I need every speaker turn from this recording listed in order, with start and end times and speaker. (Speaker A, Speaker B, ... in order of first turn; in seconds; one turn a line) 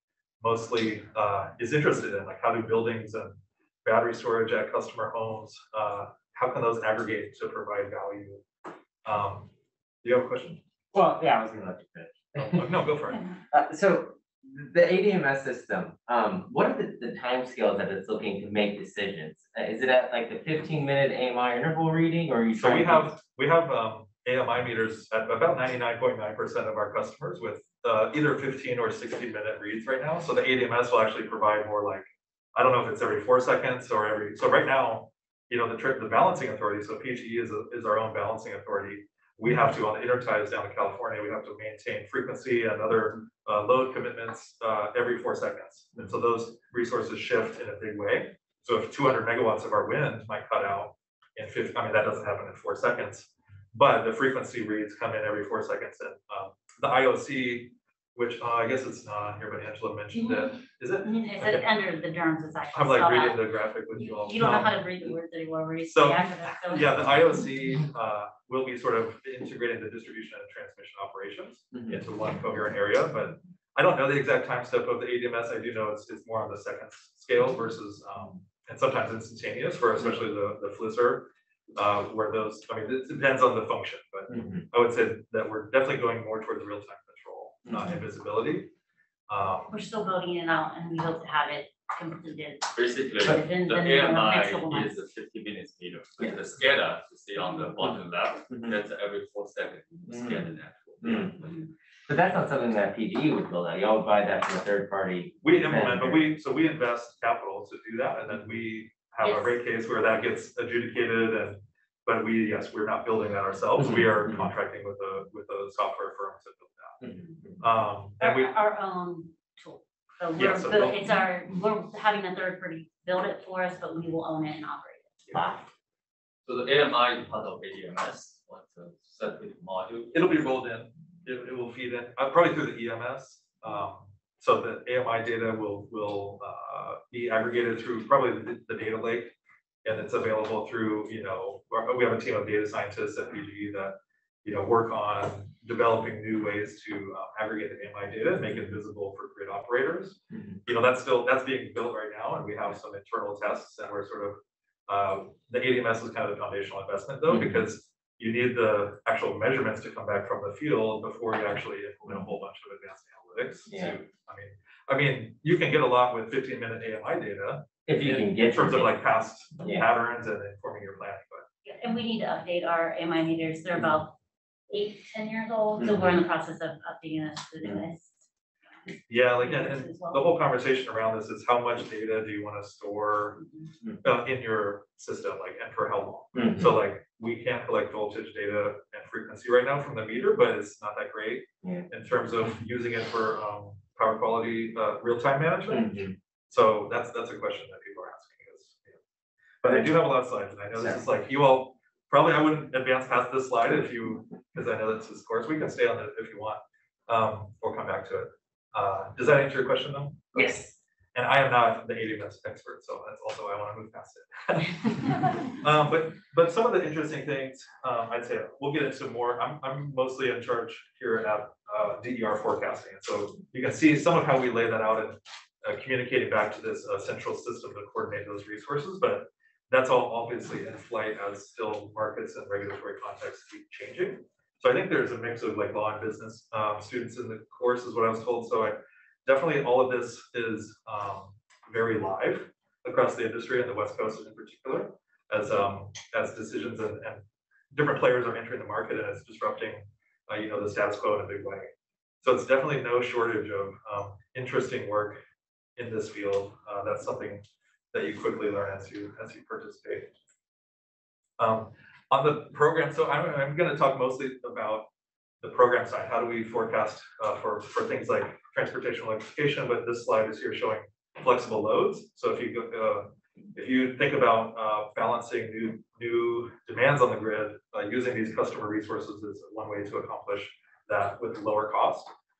Speaker A: 0.4-8.4
Speaker A: 9.0-9.5
Speaker A: 10.0-10.6
Speaker B: 10.9-12.7
Speaker A: 12.3-13.2
Speaker B: 13.5-23.1
Speaker A: 22.6-61.7
Speaker C: 60.1-60.5
Speaker C: 61.0-63.4
Speaker A: 62.7-64.8
Speaker C: 64.0-67.2
Speaker A: 65.9-88.7
Speaker B: 84.3-84.6
Speaker B: 87.7-87.9
Speaker A: 89.3-89.8
Speaker C: 89.7-95.0
Speaker D: 92.7-101.5
Speaker B: 100.1-100.4
Speaker B: 101.0-101.3
Speaker B: 102.1-106.2
Speaker A: 105.4-117.0
Speaker C: 109.2-109.5
Speaker B: 113.8-114.5
Speaker B: 117.0-117.6
Speaker A: 117.6-118.5
Speaker C: 118.2-125.5
Speaker A: 120.3-121.2
Speaker D: 126.5-130.2
Speaker A: 130.1-171.4
Speaker B: 157.3-157.6
Speaker B: 163.7-163.9
Speaker B: 167.9-168.9
Speaker C: 171.6-174.1
Speaker C: 174.7-178.2
Speaker B: 175.8-176.2
Speaker C: 178.9-180.2
Speaker A: 179.1-183.4
Speaker A: 184.0-195.9
Speaker B: 186.3-186.7
Speaker B: 195.7-196.1
Speaker A: 196.5-199.0
Speaker A: 199.6-210.6
Speaker B: 199.6-199.9
Speaker A: 211.1-251.7
Speaker A: 252.2-255.2
Speaker A: 255.8-260.1
Speaker A: 261.4-264.9
Speaker A: 265.4-282.1